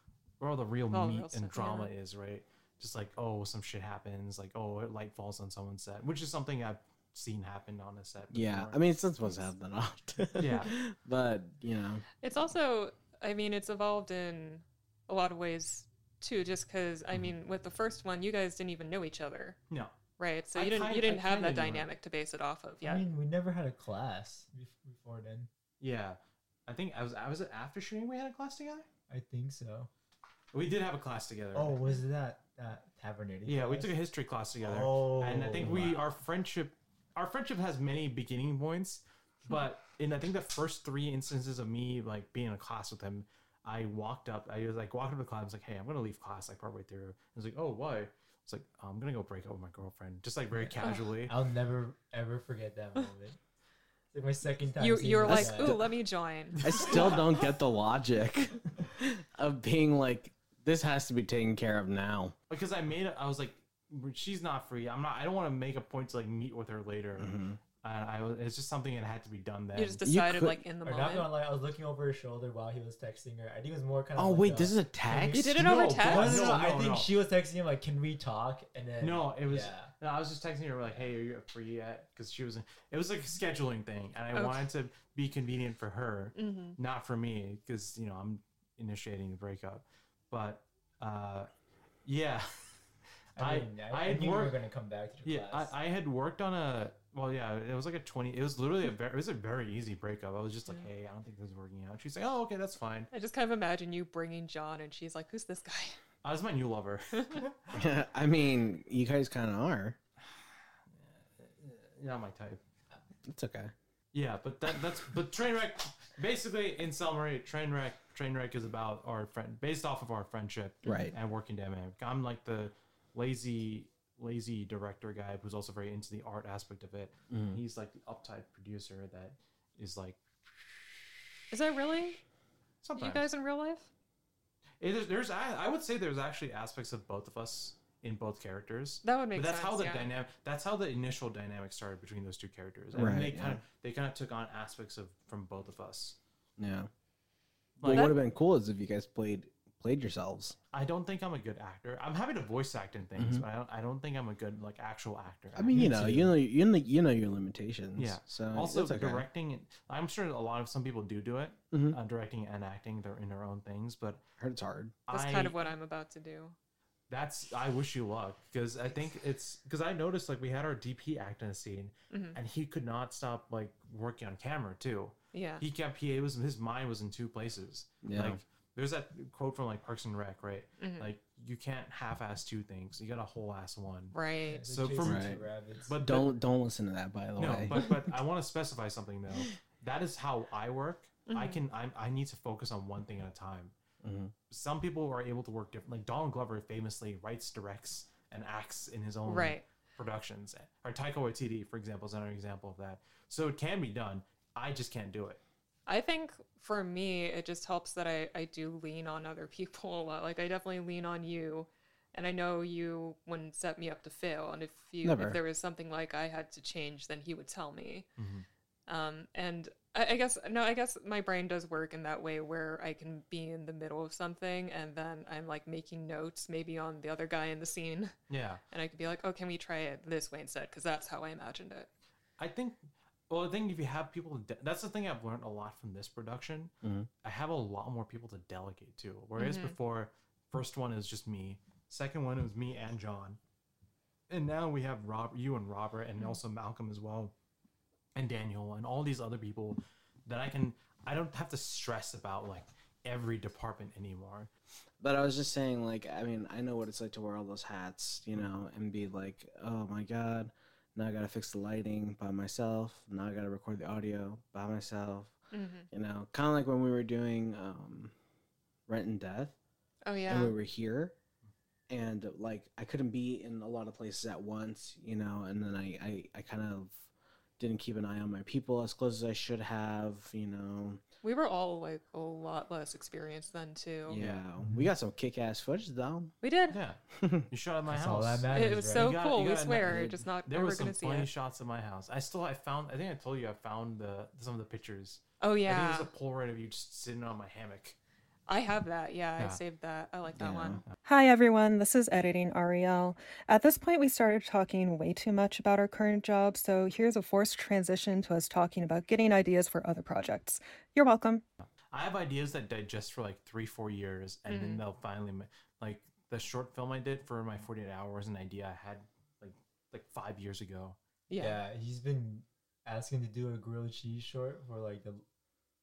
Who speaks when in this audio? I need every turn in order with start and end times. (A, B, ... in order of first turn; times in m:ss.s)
0:00.4-0:08.8 A
0:00.9-0:01.9 B
0:08.3-0:12.0 C
0:09.2-0:09.5 B
0:10.4-0:10.7 A
0:12.2-0:19.6 B
0:19.7-0:20.0 A
0:20.2-0:23.0 B
0:20.5-0:21.9 A
0:22.8-0:25.5 D
0:25.8-0:28.8 A
0:29.1-0:29.9 D
0:30.5-0:32.0 A
0:31.5-0:33.9 D
0:33.4-0:51.3 A
0:34.6-0:36.0 D
0:50.5-0:53.4 D
0:54.1-0:55.8 D
0:54.8-0:57.2 B
0:55.2-0:55.8 C
0:56.6-1:02.3 C
1:02.5-1:10.0 A
1:07.2-1:07.6 C
1:09.7-1:11.3 B
1:10.0-1:10.6 C
1:10.8-1:15.4 D
1:14.2-1:15.7 C
1:15.3-1:16.5 B
1:15.3-1:17.1 A
1:16.0-1:19.9 D
1:19.0-1:31.5 A
1:24.3-1:24.6 B
1:26.4-1:26.8 B
1:32.0-1:32.7 A
1:33.4-1:35.7 D
1:33.4-1:34.6 A
1:35.2-1:43.1 A
1:43.1-1:46.0 B
1:46.2-1:47.7 A
1:47.1-1:47.4 B
1:47.7-1:50.0 C
1:50.9-1:52.6 A
1:53.2-1:53.7 C
1:54.1-2:11.2 A
2:00.8-2:01.1 C
2:07.3-2:07.6 C
2:11.5-2:12.2 B
2:12.8-2:13.2 A
2:13.0-2:13.9 B
2:14.8-2:26.2 A
2:19.0-2:20.1 B
2:22.9-2:23.6 C
2:26.6-2:26.9 C
2:27.8-2:28.1 A
2:27.8-2:30.6 C
2:27.9-2:28.2 B
2:30.7-2:36.3 A
2:33.2-2:33.4 C
2:35.6-2:39.2 C
2:38.0-2:44.2 A
2:41.7-2:42.0 C
2:44.4-2:45.0 C
2:45.1-2:45.6 A
2:45.1-2:46.6 B
2:47.1-3:04.2 A
2:52.1-2:52.4 B
2:55.3-2:55.6 B
2:58.0-2:58.4 C
3:00.8-3:01.1 B
3:04.1-3:04.7 B
3:04.5-3:06.0 D
3:04.7-3:06.3 A
3:05.0-3:05.4 C
3:06.0-3:07.8 C
3:07.4-3:13.7 A
3:11.3-3:11.6 B
3:14.0-3:14.3 C
3:14.5-3:25.4 A
3:19.2-3:19.6 B
3:25.9-3:38.1 B
3:35.0-3:35.4 C
3:38.2-3:38.4 A
3:38.9-3:48.1 B
3:48.3-3:48.6 A
3:48.7-3:51.9 B
3:52.4-4:03.4 A
3:56.8-3:57.1 C
3:59.4-3:59.7 B
4:04.3-4:07.3 A
4:08.1-4:14.5 A
4:15.0-4:25.3 C
4:25.5-4:25.9 B
4:25.9-4:28.1 C
4:28.9-4:29.5 C
4:30.0-4:30.5 B
4:30.3-4:31.1 C
4:31.9-4:37.1 C
4:37.6-4:41.0 C
4:41.2-4:44.2 B
4:44.1-4:46.3 C
4:44.1-4:44.4 A
4:44.6-4:44.9 D
4:46.4-4:46.8 B
4:46.7-4:58.0 A
4:47.1-4:47.5 C
4:47.9-4:49.1 D
4:48.5-4:51.3 B
4:55.4-4:56.1 B
4:58.5-5:00.8 B
5:00.4-5:00.8 C
5:01.0-5:11.4 E
5:11.9-5:21.0 A
5:14.5-5:14.8 B
5:21.3-5:21.6 B
5:21.4-5:25.2 D